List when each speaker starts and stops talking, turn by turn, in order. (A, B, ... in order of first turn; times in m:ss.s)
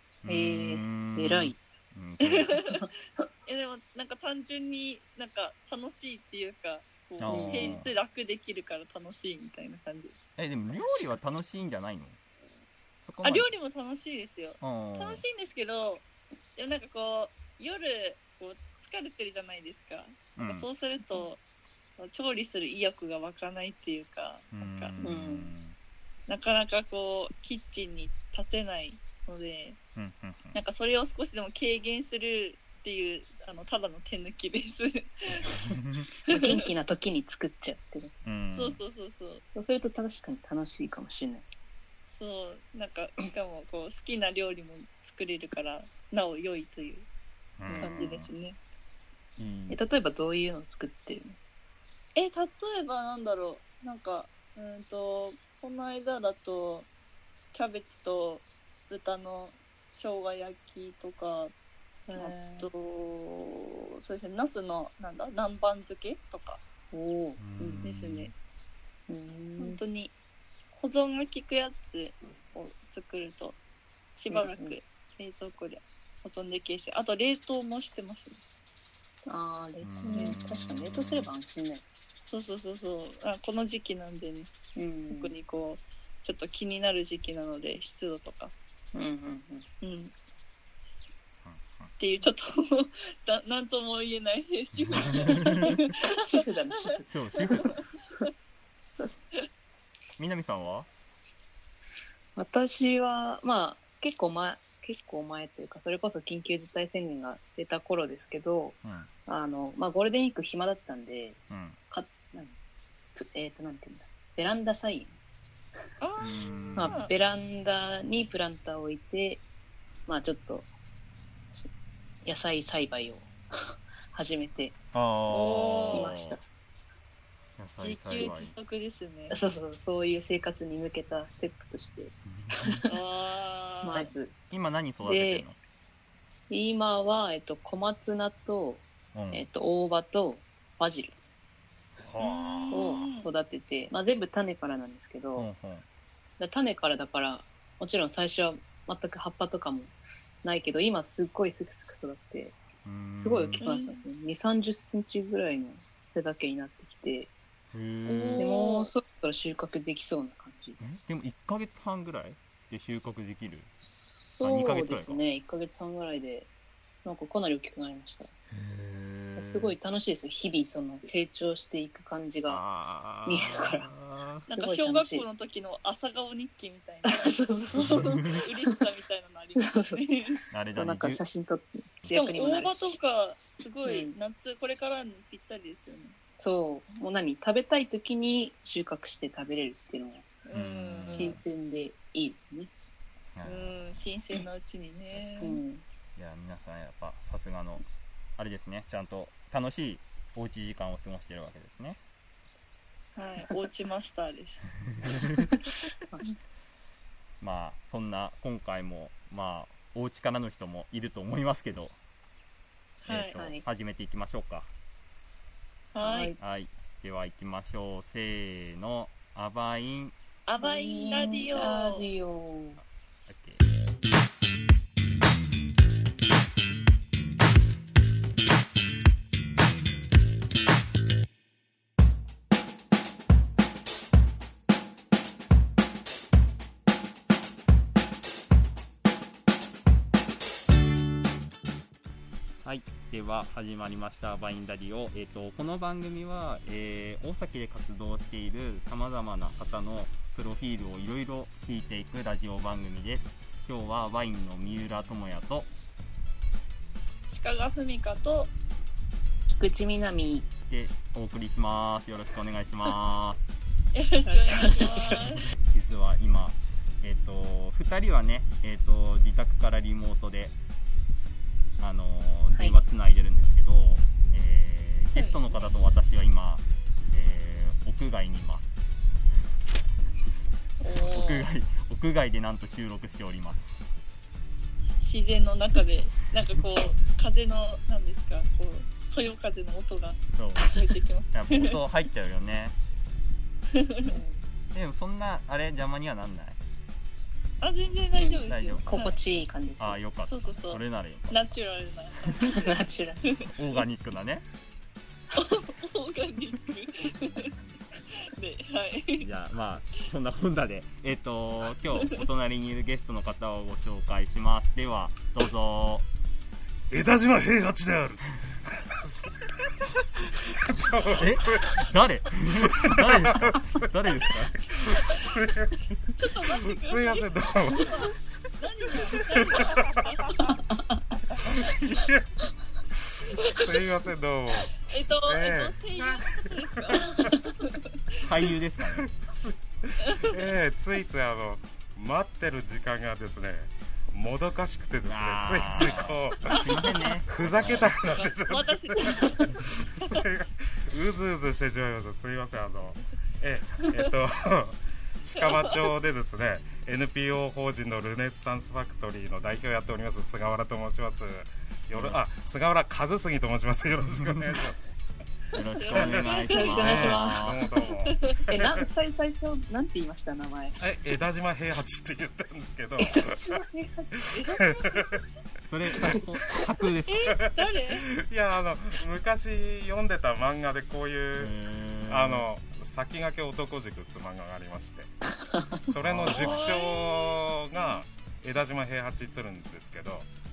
0:00.2-0:02.6 A
0:00.3-0:01.6 B
0:02.2-0:02.9 C
0:02.6-0:02.9 B
0:03.4-0:10.2 C
0:07.2-0:07.9 A
0:07.3-0:07.8 B
0:10.4-0:12.2 A
0:13.0-0:13.5 A
0:13.2-0:21.4 C
0:14.6-0:15.2 A
0:20.4-0:20.6 A
0:22.0-0:24.9 C
0:24.5-0:25.8 A
0:25.0-0:25.5 B
0:26.3-0:29.8 C
0:30.0-0:30.6 A
0:30.5-0:35.6 C
0:35.3-0:36.1 A
0:36.2-0:36.7 C
0:36.3-0:38.2 B
0:38.2-0:38.8 A
0:38.6-0:39.4 C
0:39.6-0:41.5 B
0:42.1-0:47.0 C
0:47.6-0:48.3 A
0:47.7-0:48.1 B
0:47.8-0:48.6 C
0:49.4-0:49.8 A
0:49.7-0:51.4 B
0:52.1-0:56.9 C
0:57.5-1:01.5 C
1:02.1-1:02.7 B
1:02.1-1:06.6 C
1:06.9-1:07.9 B
1:07.4-1:08.3 A
1:07.8-1:08.3 C
1:09.1-1:09.8 B
1:09.6-1:10.1 C
1:10.7-1:13.6 C
1:14.2-1:18.4 C
1:14.3-1:14.7 B
1:19.2-1:21.8 B
1:19.8-1:21.3 A
1:22.2-1:24.5 C
1:24.8-1:25.3 B
1:25.1-1:28.5 C
1:28.9-1:29.7 B
1:29.8-1:30.1 C
1:31.4-1:31.9 A
1:32.0-1:37.7 C
1:34.8-1:35.8 A
1:35.6-1:37.0 B
1:37.0-1:37.7 A
1:40.2-1:40.9 A
1:42.4-1:52.6 B
1:48.8-1:49.1 A
1:51.5-1:51.8 A
1:53.2-1:55.1 B
1:56.0-1:57.1 C
1:56.2-1:57.0 A
1:56.8-1:59.4 B
2:00.1-2:00.7 B
2:02.2-2:04.8 B
2:04.9-2:06.4 A
2:05.3-2:06.1 C
2:05.9-2:06.4 B
2:07.6-2:08.6 A
2:07.8-2:09.4 C
2:09.3-2:13.0 B
2:12.2-2:12.8 A
2:12.9-2:14.1 C
2:13.8-2:14.3 B
2:14.5-2:15.6 A
2:15.0-2:15.4 B
2:16.5-2:21.2 B
2:19.1-2:19.5 A
2:22.0-2:23.1 A
2:22.2-2:23.3 C
2:22.7-2:25.5 B
2:25.4-2:25.9 A
2:26.4-2:29.9 B
2:30.4-2:32.6 B
2:32.8-2:33.7 A
2:33.2-2:37.3 B
2:33.6-2:34.0 C
2:37.7-2:38.5 A
2:38.1-2:38.9 C
2:38.4-2:40.8 B
2:40.8-2:43.7 A
2:43.8-2:46.5 B
2:44.4-2:45.2 A
2:47.0-2:48.3 B
2:48.5-2:49.8 A
2:49.4-2:52.6 B
2:52.5-2:54.4 A
2:53.2-2:53.9 B
2:54.5-2:55.2 B
2:54.5-3:00.4 C
2:57.0-2:58.8 B
2:57.8-2:58.4 A
2:59.6-3:00.0 B
3:00.5-3:01.2 A
3:00.7-3:03.0 B
3:02.1-3:06.2 C
3:03.8-3:04.2 B
3:06.4-3:10.3 B
3:10.4-3:11.4 C
3:10.5-3:11.4 A
3:11.1-3:12.7 B
3:13.4-3:14.0 A
3:13.4-3:15.6 C
3:15.4-3:15.8 B
3:16.2-3:17.8 A
3:18.4-3:22.0 A
3:23.2-3:24.6 C
3:25.0-3:25.5 A
3:25.4-3:26.4 B
3:27.4-3:32.0 A
3:33.0-3:33.3 C
3:33.1-3:34.7 A
3:33.4-3:33.6 B
3:35.9-3:36.4 C
3:36.0-3:36.4 B
3:36.4-3:40.1 A
3:40.4-3:42.1 C
3:40.6-3:42.8 B
3:43.3-3:43.6 A
4:02.6-4:15.7 A
4:17.3-4:18.5 C
4:19.5-4:20.5 B
4:20.7-4:23.5 A
4:23.9-4:25.4 C
4:24.2-4:25.4 B
4:25.6-4:30.6 A
4:31.8-4:38.8 A
4:32.5-4:32.8 B
4:35.1-4:35.7 C
4:40.8-4:41.5 C
4:40.9-4:43.8 A
4:45.0-4:51.8 C
4:50.3-4:50.8 A
4:51.3-4:52.8 A
4:53.7-4:54.2 C
4:54.0-4:54.4 B
4:54.7-4:56.6 A
4:57.6-4:59.2 C
4:58.1-5:00.0 B
4:58.5-4:59.0 A
4:59.8-5:01.4 A
5:00.3-5:03.5 C
5:02.4-5:03.3 B
5:03.4-5:04.4 A
5:05.3-5:07.6 C
5:08.1-5:09.3 C
5:09.2-5:16.0 A
5:16.9-5:19.7 D
5:20.2-5:28.1 D
5:21.2-5:24.6 A
5:24.8-5:25.4 C
5:26.2-5:30.7 C
5:29.2-5:30.1 D
5:30.5-5:31.2 B
5:31.4-5:32.3 D
5:31.4-5:31.8 C
5:32.9-5:37.4 D
5:33.3-5:33.8 C
5:34.7-5:38.2 C
5:38.2-5:39.1 A
5:39.0-6:04.8 D
5:40.0-5:40.4 C
5:45.0-5:47.9 A
5:48.1-5:50.2 C
5:55.4-5:55.9 C
6:01.9-6:02.2 A
6:04.1-6:04.6 A
6:05.5-6:07.7 A
6:05.6-6:08.4 C
6:06.0-6:08.9 D
6:06.5-6:07.5 B
6:08.4-6:10.9 B
6:10.8-6:13.6 D
6:13.0-6:14.4 B
6:14.2-6:15.2 D
6:14.3-6:15.2 C
6:15.7-6:17.4 A
6:16.0-6:16.2 B
6:17.1-6:18.1 C
6:17.4-6:21.6 D
6:21.4-6:22.5 A
6:22.1-6:25.1 D
6:25.4-6:25.8 B
6:25.8-6:30.3 D
6:26.0-6:26.8 A
6:26.3-6:28.0 C